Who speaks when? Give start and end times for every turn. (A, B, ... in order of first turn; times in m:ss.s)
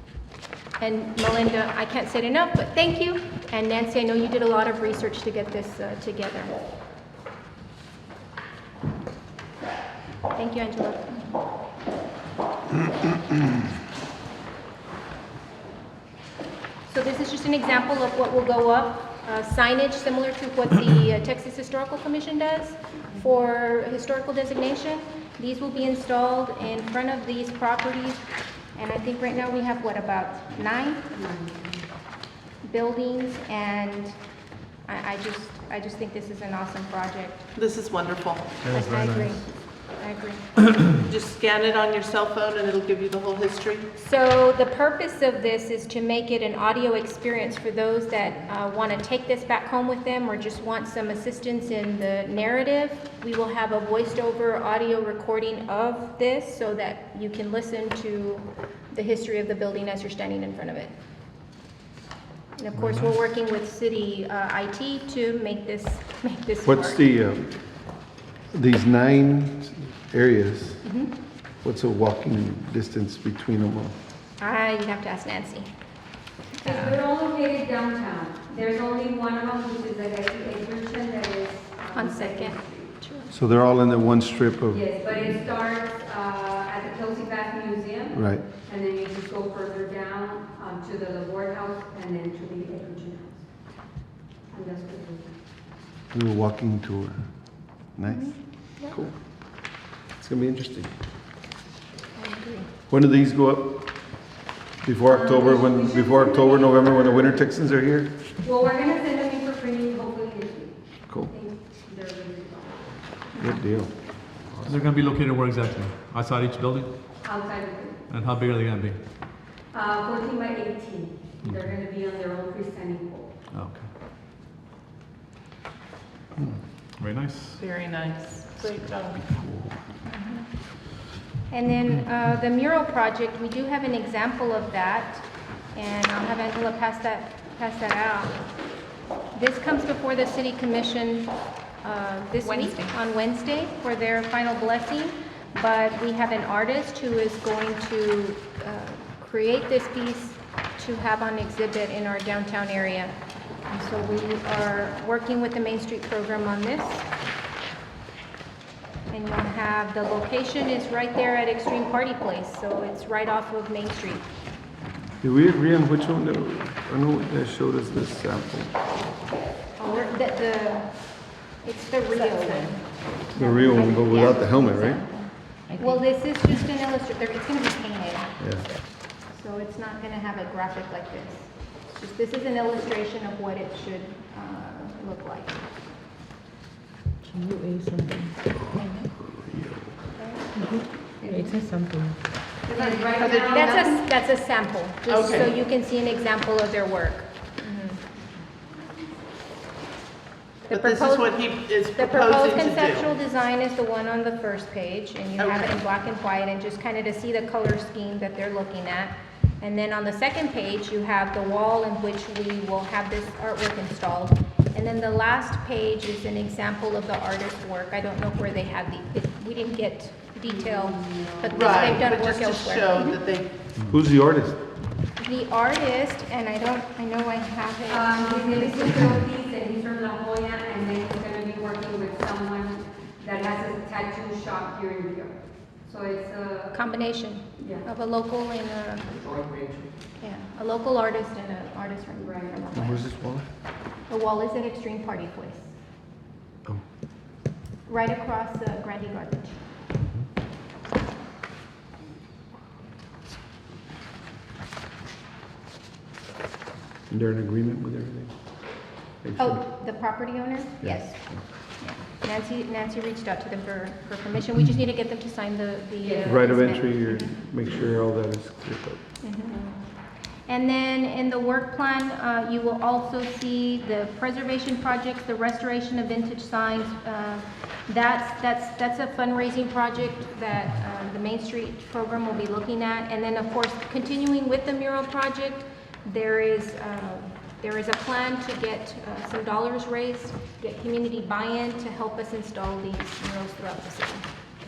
0:00.8-0:06.5 A
0:10.3-0:11.2 A
0:16.9-0:31.0 A
0:31.1-0:31.8 B
0:32.6-0:34.2 A
0:34.9-0:37.4 A
0:37.6-0:38.6 C
0:38.6-0:39.4 D
0:38.7-0:40.4 A
0:41.1-0:43.9 C
0:44.0-1:00.9 A
1:02.6-1:07.0 A
1:02.7-1:03.1 D
1:06.6-1:07.6 E
1:08.5-1:10.8 E
1:10.8-1:11.1 A
1:11.6-1:13.9 E
1:14.4-1:15.7 A
1:16.6-1:17.0 A
1:16.6-1:22.9 B
1:21.9-1:23.3 A
1:23.3-1:25.3 E
1:24.7-1:33.9 B
1:28.1-1:28.4 E
1:34.5-1:35.3 B
1:36.1-1:40.9 E
1:38.1-1:39.0 A
1:42.2-1:42.7 A
1:42.9-1:43.9 E
1:44.8-1:48.1 E
1:45.1-1:47.4 B
1:48.4-1:53.2 B
1:53.3-1:53.6 A
1:53.4-1:53.9 E
1:54.6-1:56.9 D
1:57.2-1:58.0 B
1:58.1-1:59.0 D
1:59.7-2:03.3 B
2:01.4-2:01.7 D
2:03.5-2:03.9 D
2:07.0-2:07.6 D
2:07.6-2:09.2 C
2:09.2-2:09.8 E
2:10.1-2:10.4 A
2:11.5-2:18.4 A
2:19.3-2:21.3 A
2:21.8-2:33.1 A
2:22.4-2:23.0 B
2:33.7-2:37.0 A
2:39.1-2:44.3 A
2:45.2-2:48.8 E
2:49.8-2:50.9 A
2:51.6-2:58.3 A
2:53.3-2:55.0 E
2:55.7-2:56.0 F
2:58.4-2:58.7 E
2:59.3-3:05.6 A
3:07.2-3:08.4 F
3:08.8-3:09.0 A
3:09.2-3:09.9 E
3:10.2-3:10.5 A
3:10.6-3:12.2 F
3:11.2-3:11.6 B
3:12.7-3:13.9 B
3:12.7-3:14.0 C
3:13.4-3:18.0 A
3:15.1-3:15.5 C
3:20.7-3:21.4 A
3:20.7-3:23.1 C
3:21.9-3:43.2 A
3:25.4-3:25.7 C
3:40.4-3:41.9 B
3:41.5-3:43.6 C
3:43.9-3:44.6 E
3:45.2-3:49.2 A
3:47.9-3:56.8 B
3:56.7-3:59.2 A
3:57.6-3:57.8 B
4:00.2-4:03.0 A
4:02.2-4:02.5 B
4:02.7-4:03.4 E
4:04.1-4:05.7 A
4:07.9-4:09.6 A
4:17.1-4:18.4 E
4:19.2-4:19.6 E
4:19.4-4:27.4 A
4:20.8-4:21.4 E
4:26.0-4:26.4 B
4:26.2-4:29.0 E
4:29.2-4:29.8 A
4:30.5-4:54.2 A